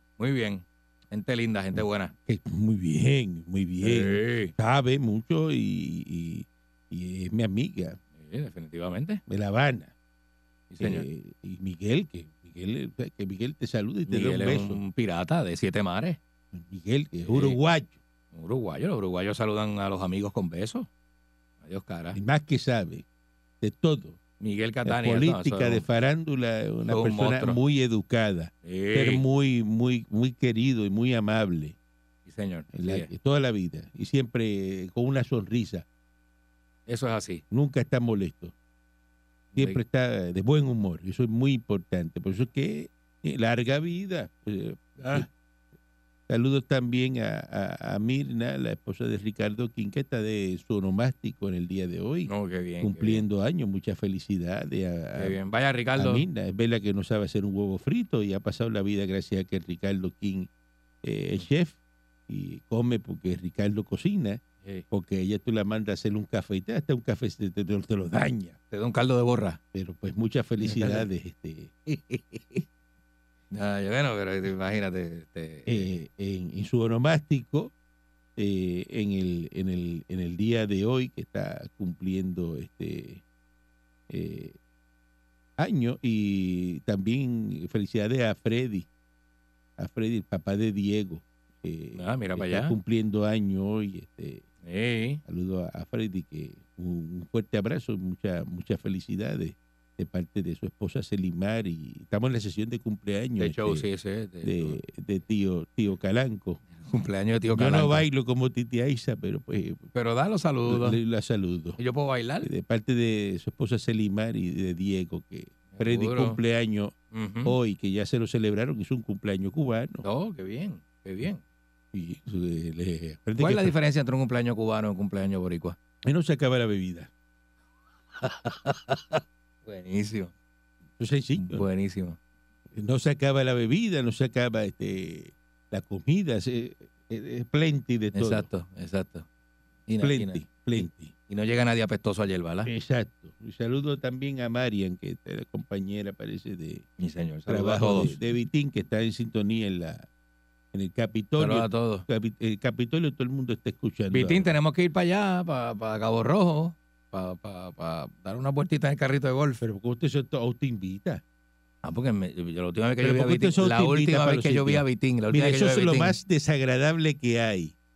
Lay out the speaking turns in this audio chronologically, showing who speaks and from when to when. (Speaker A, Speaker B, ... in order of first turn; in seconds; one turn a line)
Speaker A: 0.2-2.1
Speaker B: 2.2-8.0
Speaker A: 3.8-4.5
Speaker A: 8.2-9.2
Speaker B: 9.3-9.9
Speaker A: 10.7-11.1
Speaker B: 10.8-14.8
Speaker A: 14.1-16.2
Speaker B: 16.5-18.0
Speaker A: 17.3-17.6
Speaker A: 18.3-20.9
Speaker A: 21.6-22.2
Speaker B: 22.1-23.0
Speaker B: 23.6-24.2
Speaker A: 24.4-25.8
Speaker B: 24.8-31.8
Speaker A: 26.9-27.6
Speaker A: 28.6-29.2
Speaker A: 32.3-33.1
Speaker B: 32.7-35.8
Speaker A: 36.9-37.4
Speaker B: 37.5-38.5
Speaker A: 39.5-39.8
Speaker B: 39.5-45.3
Speaker A: 45.0-45.3
Speaker B: 46.3-55.4
Speaker A: 52.3-53.2
Speaker A: 55.1-56.2
Speaker B: 56.0-60.5
Speaker B: 61.0-61.8
Speaker B: 62.3-68.5
Speaker A: 68.7-69.6
Speaker B: 69.7-72.6
Speaker A: 70.6-71.0
Speaker A: 73.5-75.9
Speaker B: 75.7-77.7
Speaker B: 78.4-83.2
Speaker B: 84.1-84.6
Speaker B: 85.6-88.9
Speaker B: 89.8-94.5
Speaker A: 91.9-92.7
Speaker A: 94.6-95.2
Speaker B: 95.2-103.8
Speaker A: 103.4-104.8
Speaker B: 104.4-106.6
Speaker A: 106.8-108.0
Speaker B: 107.5-109.9
Speaker A: 109.9-111.0
Speaker B: 110.7-111.8
Speaker A: 111.8-112.5
Speaker B: 112.4-120.0
Speaker A: 115.7-116.4
Speaker A: 117.1-117.5
Speaker A: 120.0-121.4
Speaker B: 121.9-123.7
Speaker A: 123.4-125.8
Speaker B: 126.0-127.1
Speaker A: 128.2-130.3
Speaker B: 131.0-131.6
Speaker A: 131.4-132.2
Speaker B: 132.7-138.5
Speaker A: 138.1-139.2
Speaker A: 139.9-142.7
Speaker B: 140.0-141.1
Speaker B: 142.6-146.9
Speaker A: 147.0-148.2
Speaker B: 147.5-150.1
Speaker B: 150.7-154.5
Speaker A: 151.4-152.1
Speaker A: 154.1-159.6
Speaker B: 159.6-161.2
Speaker A: 161.8-166.2
Speaker B: 163.0-167.7